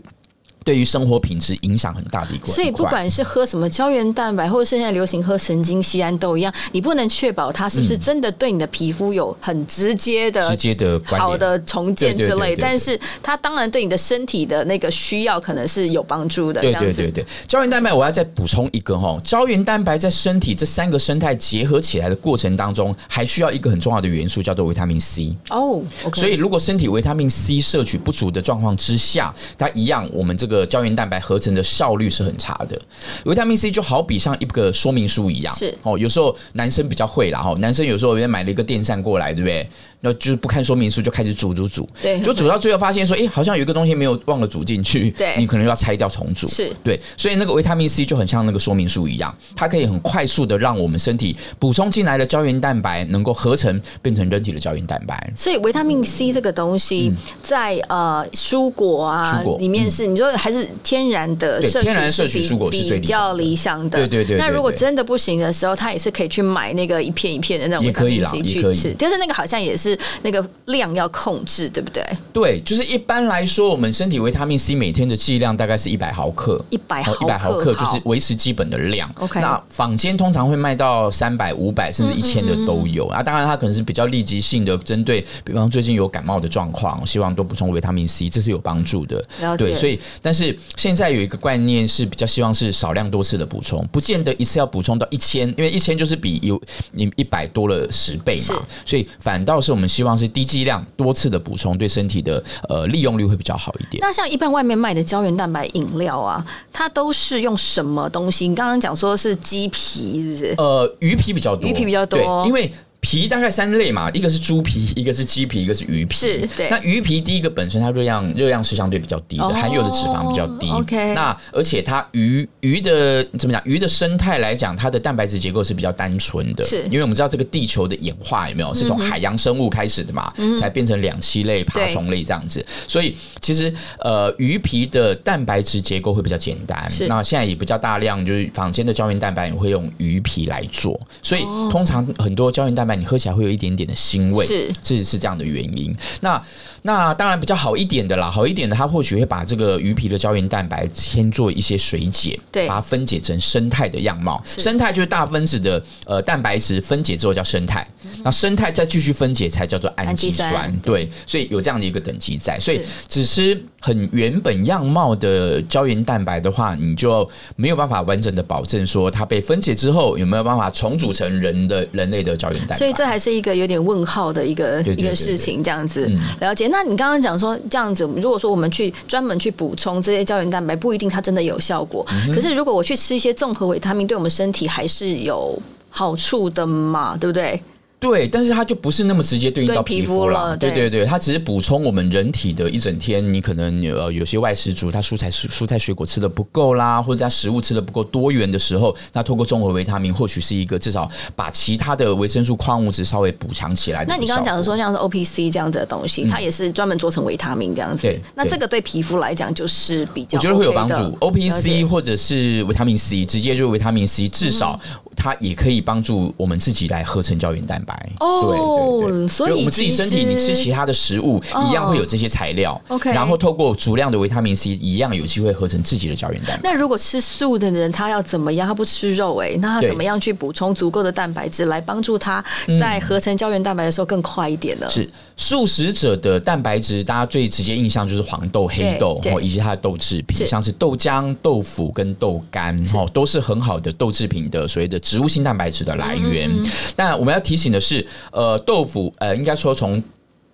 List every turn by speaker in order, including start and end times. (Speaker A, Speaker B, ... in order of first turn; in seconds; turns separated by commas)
Speaker A: 0.6-3.0, Speaker B: 2.5-17.1, Speaker A: 7.7-8.0, Speaker A: 10.4-11.5, Speaker A: 12.0-12.9, Speaker A: 16.6-25.4, Speaker B: 25.5-26.4, Speaker A: 26.1-55.4, Speaker B: 35.5-35.8, Speaker B: 42.0-42.5, Speaker B: 45.2-45.5, Speaker B: 46.5-46.8, Speaker B: 55.4-72.2, Speaker A: 59.2-60.0, Speaker A: 61.6-64.8, Speaker A: 67.8-68.9, Speaker A: 72.3-104.0, Speaker B: 76.7-78.0, Speaker B: 79.2-79.5, Speaker B: 82.0-82.9, Speaker B: 89.4-89.9, Speaker B: 98.4-98.7, Speaker B: 104.0-110.6, Speaker A: 110.6-173.1, Speaker B: 111.6-112.5, Speaker B: 116.2-116.8, Speaker B: 119.4-121.3, Speaker B: 126.6-126.9, Speaker B: 128.7-129.2, Speaker B: 130.4-130.7, Speaker B: 131.7-132.0, Speaker B: 141.3-141.9, Speaker B: 144.4-144.8, Speaker B: 152.5-152.8, Speaker B: 160.0-160.9, Speaker B: 172.7-187.6, Speaker A: 174.8-175.5, Speaker A: 176.0-176.3, Speaker A: 182.1-182.5, Speaker A: 188.0-204.7, Speaker B: 189.6-190.9, Speaker B: 204.1-211.8, Speaker A: 208.0-208.6, Speaker A: 210.3-226.7, Speaker B: 214.4-214.7, Speaker B: 218.2-220.7, Speaker B: 221.5-222.1, Speaker B: 222.9-223.4, Speaker B: 226.6-235.0, Speaker A: 232.7-233.2, Speaker A: 234.9-250.0, Speaker B: 238.8-239.4, Speaker B: 246.0-246.7